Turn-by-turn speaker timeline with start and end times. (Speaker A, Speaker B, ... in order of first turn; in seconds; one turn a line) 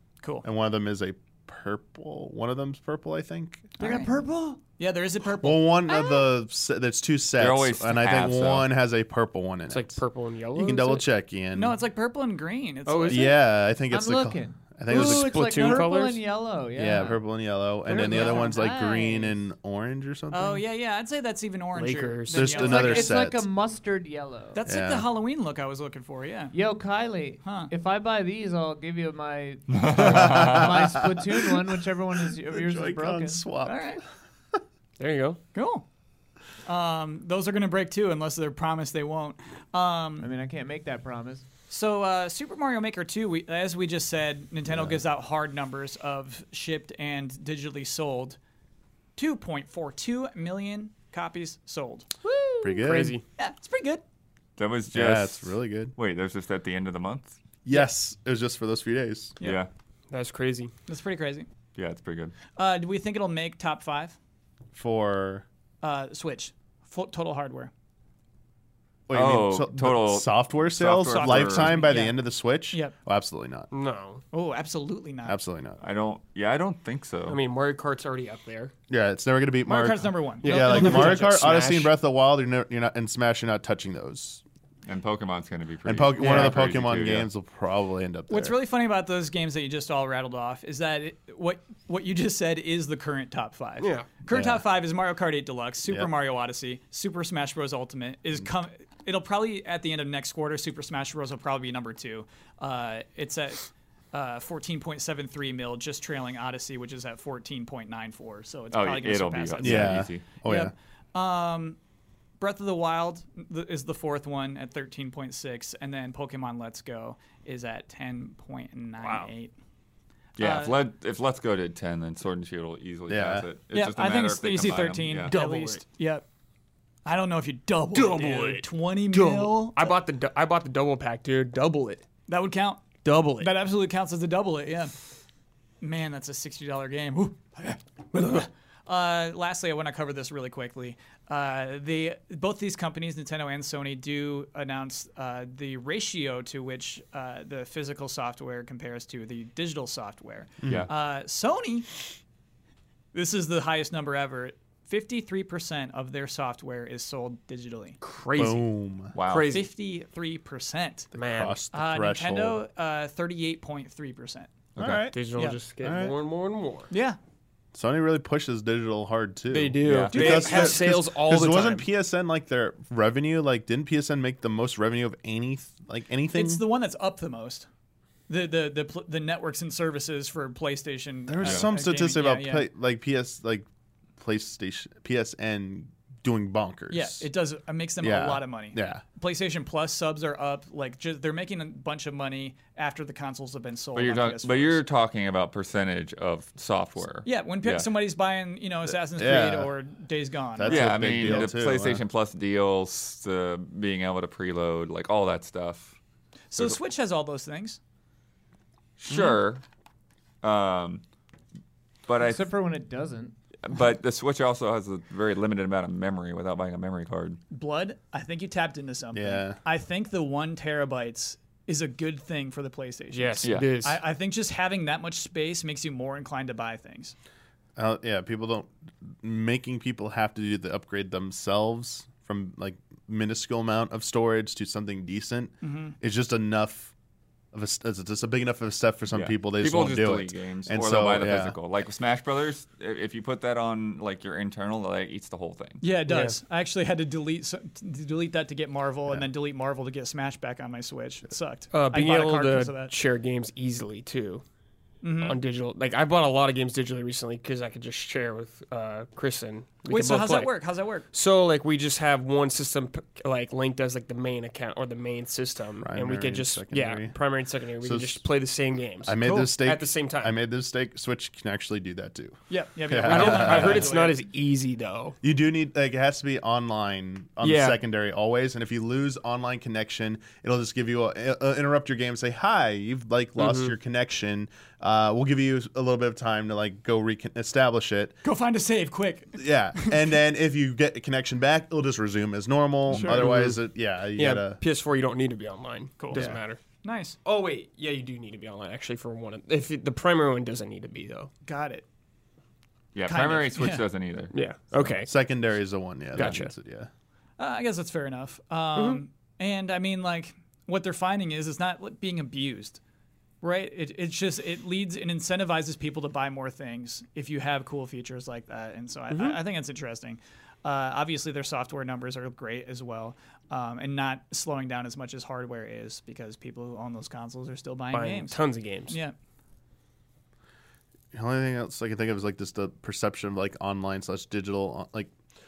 Speaker A: 0.4-3.7
Speaker B: 3.8-4.1
Speaker C: 3.8-4.6
Speaker B: 4.8-6.2
Speaker A: 5.4-10.0
Speaker D: 7.4-8.7
Speaker E: 9.7-11.1
Speaker A: 10.6-11.8
Speaker B: 11.6-13.4
Speaker E: 12.9-13.4
Speaker A: 13.1-15.9
Speaker C: 13.9-17.2
Speaker E: 14.9-16.2
Speaker A: 16.8-20.6
Speaker C: 17.9-19.4
Speaker B: 18.0-18.5
Speaker B: 20.3-23.1
Speaker E: 21.7-22.6
Speaker A: 22.3-23.5
Speaker C: 22.5-24.6
Speaker B: 24.5-26.6
Speaker A: 24.6-25.1
Speaker C: 26.5-33.4
Speaker B: 27.4-27.7
Speaker D: 29.7-30.8
Speaker A: 29.9-34.0
Speaker B: 33.6-34.0
Speaker E: 35.0-35.4
Speaker B: 35.5-35.9
Speaker B: 36.7-40.3
Speaker C: 40.2-41.5
Speaker B: 41.7-48.4
Speaker A: 44.7-45.0
Speaker B: 49.2-52.1
Speaker E: 52.2-53.2
Speaker A: 52.6-53.2
Speaker B: 53.4-54.0
Speaker D: 54.6-57.4
Speaker A: 54.9-55.9
Speaker A: 57.6-59.4
Speaker D: 59.4-59.7
Speaker E: 60.1-60.7
Speaker B: 60.9-61.5
Speaker D: 61.8-62.3
Speaker B: 62.6-64.2
Speaker A: 64.7-65.5
Speaker B: 65.8-67.7
Speaker A: 69.1-73.7
Speaker D: 69.1-71.8
Speaker B: 71.1-72.9
Speaker E: 73.7-74.2
Speaker B: 74.3-75.4
Speaker A: 75.2-75.8
Speaker D: 75.8-77.4
Speaker E: 77.3-78.7
Speaker A: 78.9-84.4
Speaker B: 79.7-81.5
Speaker E: 80.4-81.9
Speaker D: 84.9-87.3
Speaker A: 85.8-88.6
Speaker E: 86.2-86.5
Speaker B: 88.3-111.8
Speaker E: 93.8-94.1
Speaker A: 94.3-94.6
Speaker D: 108.7-110.2
Speaker A: 109.6-110.7
Speaker B: 112.4-119.5
Speaker E: 119.0-119.3
Speaker B: 120.4-120.8
Speaker D: 120.4-125.3
Speaker A: 123.1-123.5
Speaker B: 123.7-126.2
Speaker E: 125.3-125.8
Speaker B: 127.0-129.9
Speaker E: 127.9-132.1
Speaker B: 132.3-132.9
Speaker E: 133.0-133.5
Speaker B: 133.4-134.9
Speaker B: 135.8-151.9
Speaker E: 138.1-138.5
Speaker A: 150.6-150.9
Speaker B: 153.1-158.0
Speaker E: 158.0-158.6
Speaker A: 158.3-159.1
Speaker D: 159.1-159.5
Speaker E: 159.3-159.7
Speaker B: 159.5-161.1
Speaker E: 161.2-161.6
Speaker A: 161.2-162.6
Speaker B: 161.7-164.5
Speaker D: 164.8-165.0
Speaker A: 164.8-165.2
Speaker E: 165.1-166.9
Speaker A: 165.8-166.2
Speaker B: 166.9-167.2
Speaker A: 167.7-176.6
Speaker E: 169.5-171.9
Speaker D: 169.9-170.2
Speaker B: 170.1-170.8
Speaker B: 176.3-177.7
Speaker B: 178.3-182.7
Speaker A: 181.3-183.7
Speaker A: 184.2-187.3
Speaker B: 186.9-194.8
Speaker A: 188.0-189.0
Speaker D: 193.9-197.9
Speaker B: 197.2-200.9
Speaker A: 198.9-199.7
Speaker A: 200.6-202.0
Speaker D: 200.7-206.0
Speaker B: 206.5-207.8
Speaker D: 209.0-209.6
Speaker D: 210.4-211.0
Speaker D: 212.1-212.5
Speaker C: 212.2-213.3
Speaker D: 213.6-217.4
Speaker B: 217.5-227.2
Speaker A: 219.1-219.6
Speaker E: 223.1-224.0
Speaker D: 223.4-223.8
Speaker A: 227.8-236.9
Speaker B: 235.6-235.9
Speaker A: 237.5-241.6
Speaker D: 239.1-245.8
Speaker B: 245.8-252.9
Speaker E: 246.1-246.4
Speaker E: 251.7-254.4
Speaker B: 255.0-255.4
Speaker E: 255.2-260.5
Speaker B: 259.9-261.1
Speaker E: 261.1-270.4
Speaker A: 265.8-267.1
Speaker A: 267.8-268.2
Speaker A: 269.0-272.4
Speaker B: 269.2-269.5
Speaker B: 272.5-274.2
Speaker A: 272.9-273.9
Speaker E: 273.0-275.2
Speaker A: 275.2-288.2
Speaker E: 277.4-277.8
Speaker E: 283.4-283.7
Speaker B: 288.2-290.1
Speaker A: 289.4-294.6
Speaker E: 292.9-293.6
Speaker B: 292.9-293.3
Speaker E: 294.1-296.6
Speaker B: 296.0-297.2
Speaker A: 296.1-296.4
Speaker E: 297.2-301.3
Speaker B: 301.4-301.9
Speaker D: 302.9-304.3
Speaker B: 303.1-303.9
Speaker E: 304.3-305.1
Speaker A: 305.0-306.9
Speaker E: 306.1-306.5
Speaker B: 307.4-312.8
Speaker E: 308.8-309.0
Speaker B: 313.4-329.1
Speaker E: 319.1-319.4
Speaker E: 327.9-329.0
Speaker A: 331.1-335.1